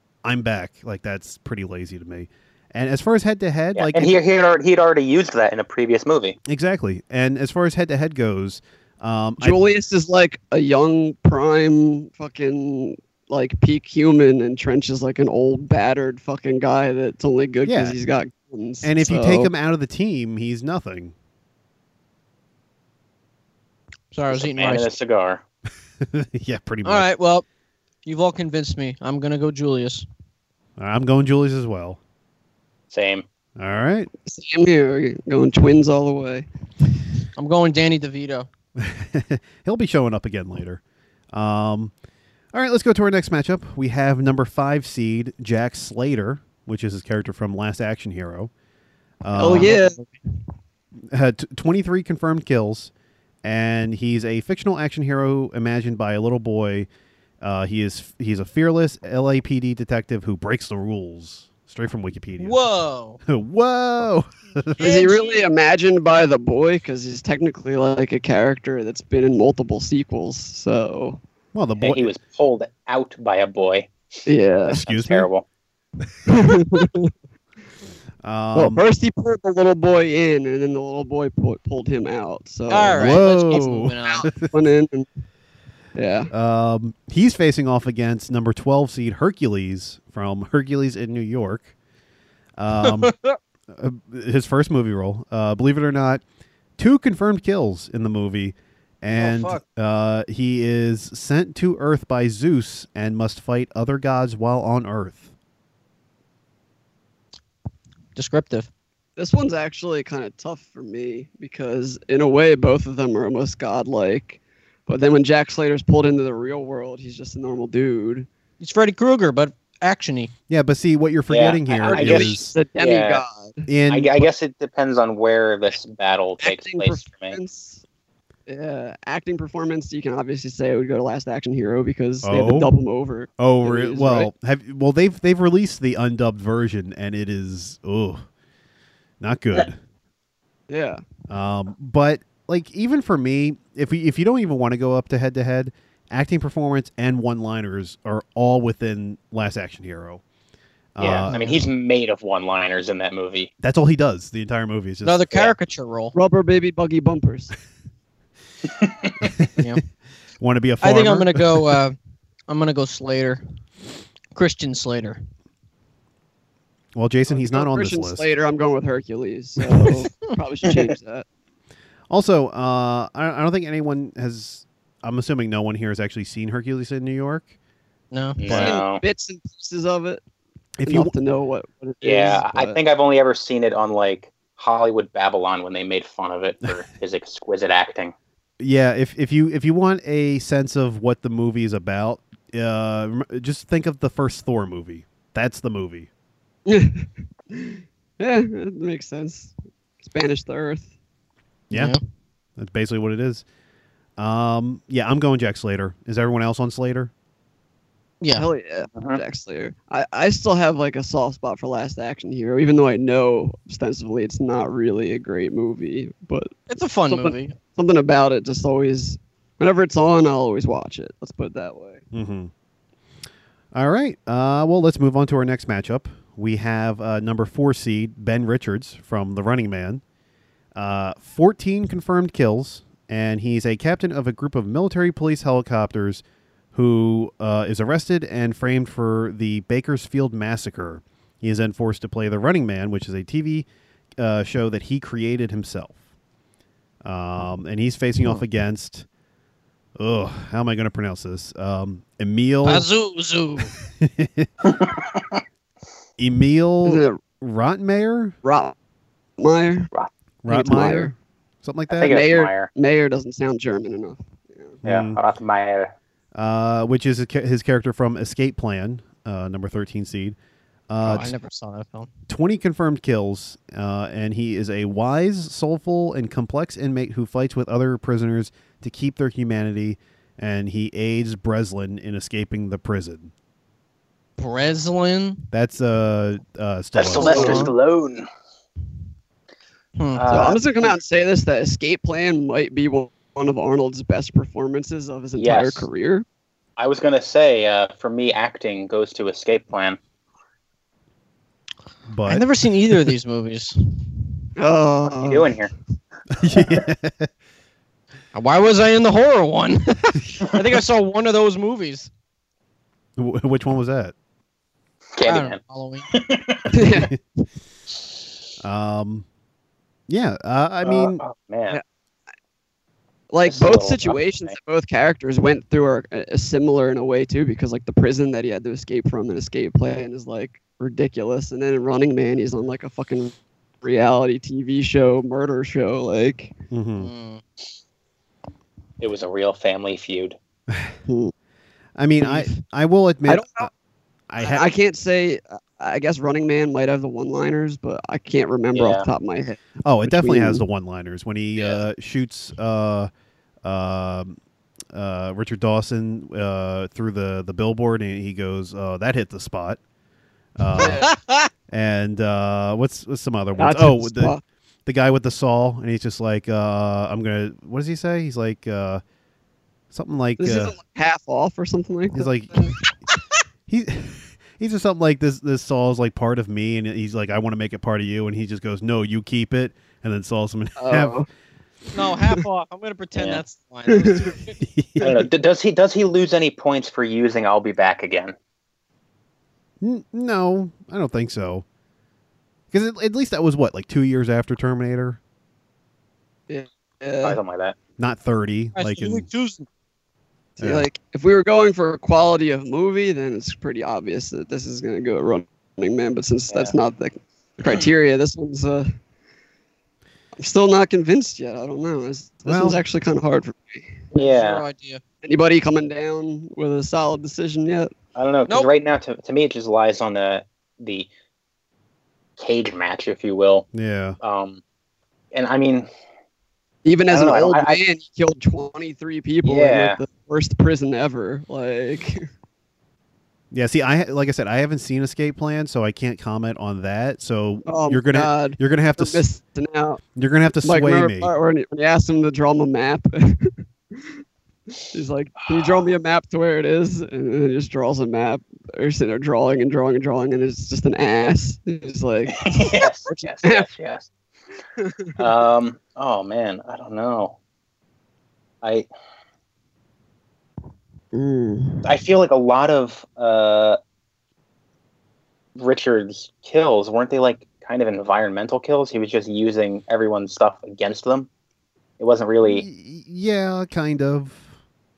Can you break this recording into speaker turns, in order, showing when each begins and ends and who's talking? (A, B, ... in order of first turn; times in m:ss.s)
0:00.2-0:04.2 A
0:03.8-0:06.4 B
0:06.5-0:09.6 A
0:09.4-0:19.5 C
0:17.6-0:18.0 A
0:18.8-0:21.1 A
0:24.1-0:24.9 D
0:24.3-0:25.4 B
0:26.0-0:27.1 A
0:26.8-0:27.4 D
0:28.0-0:30.1 D
0:30.8-0:32.0 A
0:32.9-0:33.2 B
0:33.6-0:34.1 A
0:34.3-0:36.5 C
0:37.4-0:38.5 D
0:38.8-0:40.8 A
0:41.3-0:41.9 A
0:42.5-0:48.5 A
0:49.2-0:49.7 A
0:49.4-0:50.0 C
0:49.4-0:50.1 D
0:51.1-0:52.9 A
0:53.4-0:56.9 A
0:57.4-1:02.6 A
1:02.4-1:03.2 D
1:03.2-1:04.8 A
1:04.8-1:05.5 D
1:04.8-1:11.2 C
1:11.5-1:12.1 A
1:11.8-1:13.9 B
1:14.3-1:14.8 C
1:14.7-1:15.3 A
1:14.8-1:15.4 B
1:16.3-1:17.1 C
1:16.3-1:16.7 A
1:18.2-1:18.8 A
1:18.6-1:25.1 C
1:22.7-1:24.3 D
1:22.9-1:24.5 A
1:26.0-1:26.3 C
1:26.3-1:31.7 A
1:32.6-1:33.1 A
1:32.8-1:33.4 D
1:33.7-1:36.2 A
1:36.8-1:45.3 A
1:39.2-1:39.6 D
1:48.2-1:48.7 D
1:49.2-1:58.3 C
1:58.6-2:00.3 D
2:00.5-2:02.5 A
2:01.3-2:03.2 B
2:01.9-2:03.7 C
2:03.7-2:04.2 A
2:03.9-2:07.4 B
2:06.4-2:07.8 C
2:08.5-2:14.3 C
2:12.2-2:12.7 A
2:13.4-2:18.2 A
2:19.2-2:19.8 A
2:20.7-2:21.0 C
2:21.3-2:30.2 A
2:31.0-2:31.7 A
2:31.0-2:33.5 B
2:31.3-2:31.6 D
2:33.6-2:35.2 A
2:35.0-2:36.2 D
2:36.1-2:37.5 C
2:38.8-2:39.1 B
2:39.2-2:39.5 A
2:40.4-2:41.8 A
2:40.8-2:42.0 D
2:42.5-2:43.4 D
2:44.3-2:45.2 D
2:47.0-2:48.3 A
2:47.3-2:51.2 C
2:52.1-2:57.5 A
2:58.1-2:58.4 D
2:58.4-2:59.0 B
2:58.5-2:58.8 A
2:58.5-3:00.2 C
3:00.8-3:01.1 A
3:00.8-3:02.8 C
3:02.0-3:08.1 B
3:08.6-3:16.1 A
3:16.7-3:20.9 C
3:21.7-3:22.0 A
3:21.7-3:22.0 D
3:22.6-3:23.4 A
3:24.2-3:27.1 A
3:28.2-3:28.5 D
3:28.3-3:42.0 C
3:29.0-3:29.2 B
3:36.7-3:37.6 D
3:42.1-3:42.5 A
3:43.7-3:50.0 A
3:50.8-3:56.2 A
3:56.7-4:03.7 A
4:04.2-4:06.0 A
4:07.0-4:09.1 A
4:10.0-4:12.9 A
4:12.6-4:13.7 D
4:14.0-4:14.5 A
4:14.6-4:15.4 B
4:16.2-4:18.4 A
4:16.8-4:17.2 C
4:18.4-4:18.8 C
4:19.4-4:19.9 C
4:20.4-4:22.2 A
4:20.5-4:21.1 C
4:21.9-4:22.7 B
4:22.1-4:24.8 C
4:24.8-4:25.2 A
4:24.8-4:25.9 B
4:26.4-4:30.4 A
4:30.9-4:31.3 A
4:31.0-4:32.1 D
4:32.3-4:43.3 A
4:44.4-4:45.5 D
4:45.5-4:47.7 A
4:47.0-4:48.3 B
4:47.2-4:47.7 C
4:47.2-4:47.7 D
4:50.0-4:50.3 D
4:50.2-4:50.9 B
4:50.3-4:56.3 C
4:55.4-4:55.9 B
4:56.8-5:00.0 B
5:02.1-5:02.4 A
5:02.3-5:04.2 D
5:04.6-5:05.6 C
5:05.0-5:05.7 B
5:06.3-5:07.3 A
5:08.3-5:12.1 D
5:13.2-5:14.1 A
5:15.2-5:15.6 B
5:15.3-5:16.1 D
5:16.1-5:16.7 B
5:16.7-5:17.2 C
5:16.9-5:17.2 A
5:18.6-5:19.2 A
5:20.1-5:21.2 A
5:20.8-5:21.8 B
5:23.3-5:36.6 C
5:23.4-5:24.6 B
5:36.7-5:37.1 A
5:37.0-5:37.4 D
5:39.0-5:40.4 B
5:41.1-5:41.3 C
5:42.0-5:43.7 A
5:43.3-5:43.7 C
5:44.3-5:44.7 A
5:44.4-5:50.6 C
5:48.7-5:49.1 B
5:49.8-5:53.1 A
5:53.6-5:54.4 A
5:54.9-5:59.8 A
6:00.6-6:01.1 A
6:00.8-6:01.1 C
6:01.1-6:01.5 D
6:01.7-6:09.0 A
6:03.6-6:04.4 C
6:09.9-6:10.8 A
6:10.4-6:12.8 C
6:12.1-6:12.7 A
6:13.7-6:21.2 A
6:20.8-6:21.3 C
6:21.9-6:24.6 D
6:23.1-6:23.4 B
6:23.9-6:24.3 C
6:24.6-6:25.2 A
6:25.0-6:28.3 B
6:29.8-6:31.6 A
6:32.7-6:35.2 A
6:36.5-6:37.4 C
6:37.2-6:37.8 B
6:38.0-6:39.2 A
6:38.8-6:39.7 D
6:40.6-6:48.9 C
6:40.6-6:40.9 A
6:50.4-6:54.0 C
6:52.5-6:52.8 A
6:54.1-6:54.6 B
6:54.2-6:55.0 D
6:55.2-6:57.9 C
6:58.2-7:01.1 B
7:02.4-7:03.7 B
7:03.7-7:04.2 A
7:04.2-7:04.6 B
7:05.3-7:05.9 B
7:06.8-7:12.2 C
7:07.1-7:07.8 B
7:09.4-7:10.0 B
7:13.5-7:19.2 A
7:17.7-7:20.0 C
7:20.2-7:21.3 A
7:20.6-7:23.6 C
7:24.9-7:33.7 C
7:32.4-7:34.1 B
7:34.8-7:35.1 C
7:35.2-7:37.4 B
7:38.6-7:38.9 B
7:41.1-7:41.9 C
7:41.8-7:43.8 B
7:45.6-7:51.3 B
7:52.0-7:52.7 B
7:52.4-7:54.5 A